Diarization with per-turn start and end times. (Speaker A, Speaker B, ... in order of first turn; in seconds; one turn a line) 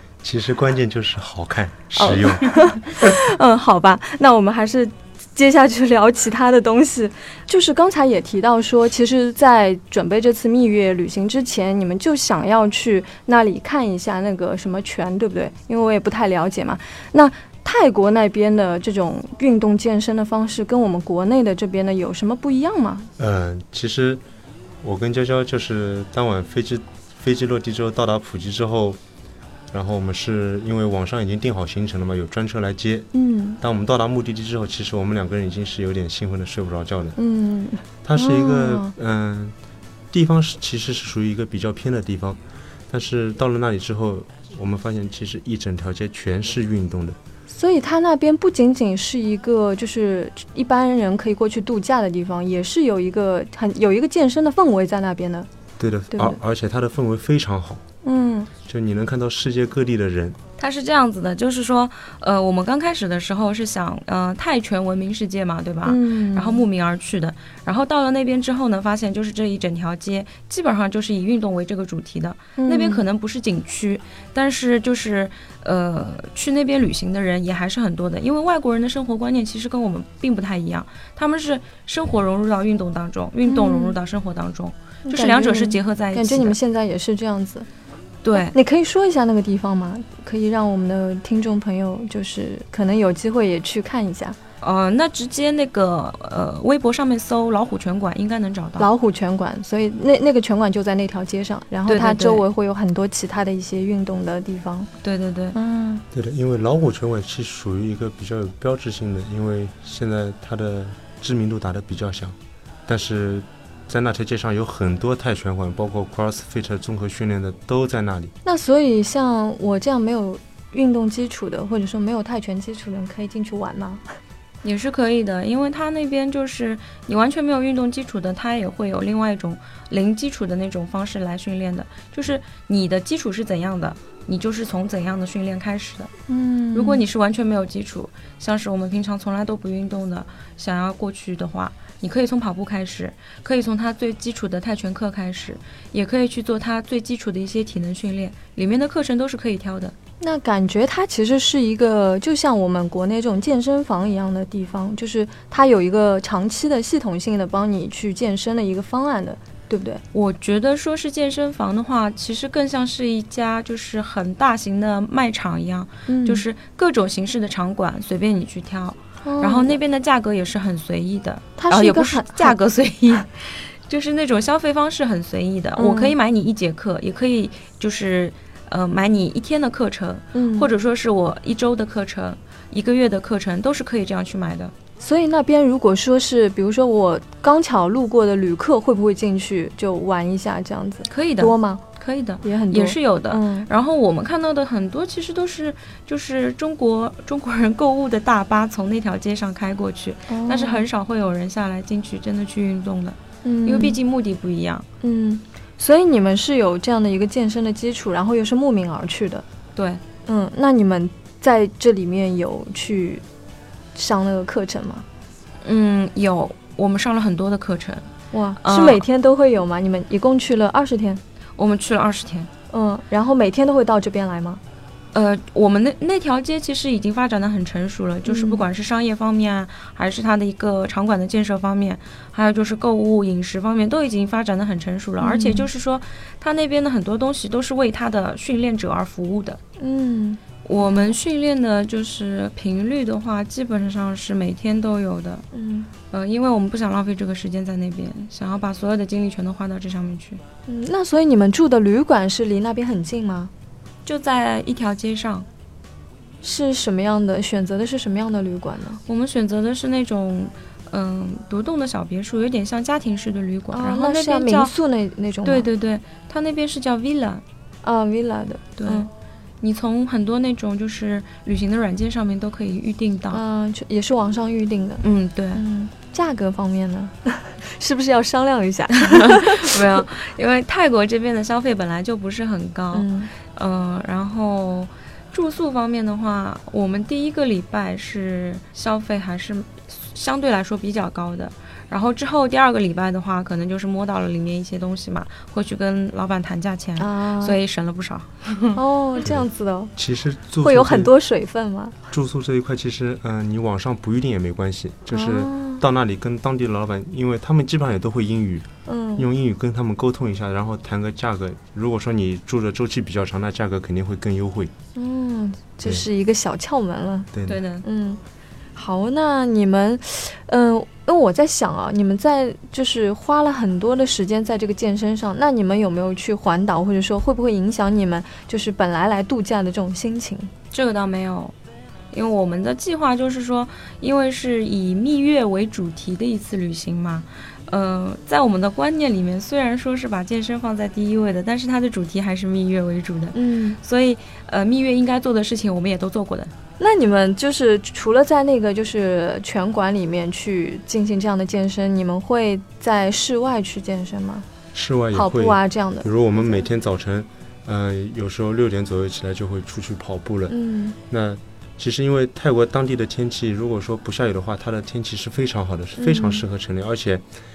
Speaker A: 0.2-2.5
Speaker B: 2.0-23.1
Speaker A: 23.2-24.2
Speaker A: 24.8-29.0
Speaker A: 29.7-37.2
Speaker B: 33.1-33.6
Speaker B: 37.2-38.9
Speaker A: 38.0-39.5
Speaker A: 40.1-47.2
Speaker B: 47.5-55.5
Speaker A: 55.8-57.8
Speaker B: 56.1-56.4
Speaker B: 58.0-58.5
Speaker A: 58.7-60.4
Speaker C: 60.6-86.6
Speaker B: 65.8-66.6
Speaker B: 72.6-73.0
Speaker B: 83.5-84.0
Speaker B: 85.1-87.7
Speaker C: 88.2-88.5
Speaker B: 88.4-94.4
Speaker C: 94.6-98.9
Speaker B: 98.8-104.9
Speaker C: 101.9-102.4
Speaker C: 105.0-105.6
Speaker B: 105.5-106.0
Speaker A: 106.1-118.3
Speaker B: 118.5-124.0
Speaker C: 124.6-136.1
Speaker B: 136.3-137.0
Speaker C: 136.7-149.9
Speaker B: 150.2-160.0
Speaker C: 160.1-184.7
Speaker B: 166.1-166.4
Speaker B: 169.2-169.8
Speaker B: 171.6-172.6
Speaker B: 175.8-176.2
Speaker B: 180.3-180.7
Speaker B: 185.0-191.8
Speaker C: 191.1-204.9
Speaker B: 192.4-193.7
Speaker B: 200.3-200.9
Speaker B: 203.4-204.0
Speaker B: 205.0-209.4
Speaker C: 209.8-210.0
Speaker B: 210.3-213.2
Speaker B: 213.9-215.1
Speaker C: 215.6-218.1
Speaker B: 218.3-221.2
Speaker C: 218.6-219.0
Speaker C: 221.6-222.5
Speaker B: 222.7-224.6
Speaker C: 225.1-239.6
Speaker B: 228.3-228.6
Speaker B: 235.2-235.7
Speaker B: 239.8-240.4
Speaker C: 240.6-245.5
Speaker B: 245.5-245.9
Speaker C: 246.1-250.4
Speaker B: 250.7-253.5
Speaker C: 254.1-255.5
Speaker B: 256.4-259.0
Speaker C: 259.1-264.7
Speaker B: 263.7-265.7
Speaker C: 265.5-267.4
Speaker B: 267.8-269.1
Speaker C: 268.8-269.1
Speaker C: 269.6-273.4
Speaker B: 273.3-280.0
Speaker C: 275.0-275.6
Speaker C: 279.0-298.8
Speaker B: 282.9-283.3
Speaker B: 297.0-297.6
Speaker B: 298.8-299.9
Speaker A: 300.0-301.1
Speaker B: 300.6-302.0
Speaker A: 302.1-314.7
Speaker B: 305.1-305.8
Speaker B: 308.9-309.3
Speaker B: 315.0-317.3
Speaker A: 317.3-317.6
Speaker C: 317.5-317.9
Speaker B: 317.8-318.2
Speaker B: 318.8-330.5
Speaker C: 330.7-331.5
Speaker C: 332.1-346.5
Speaker B: 343.3-343.8
Speaker B: 346.8-354.5
Speaker A: 354.7-360.5
Speaker B: 355.1-356.1
Speaker B: 360.5-361.0
Speaker A: 361.1-367.2
Speaker B: 366.0-366.4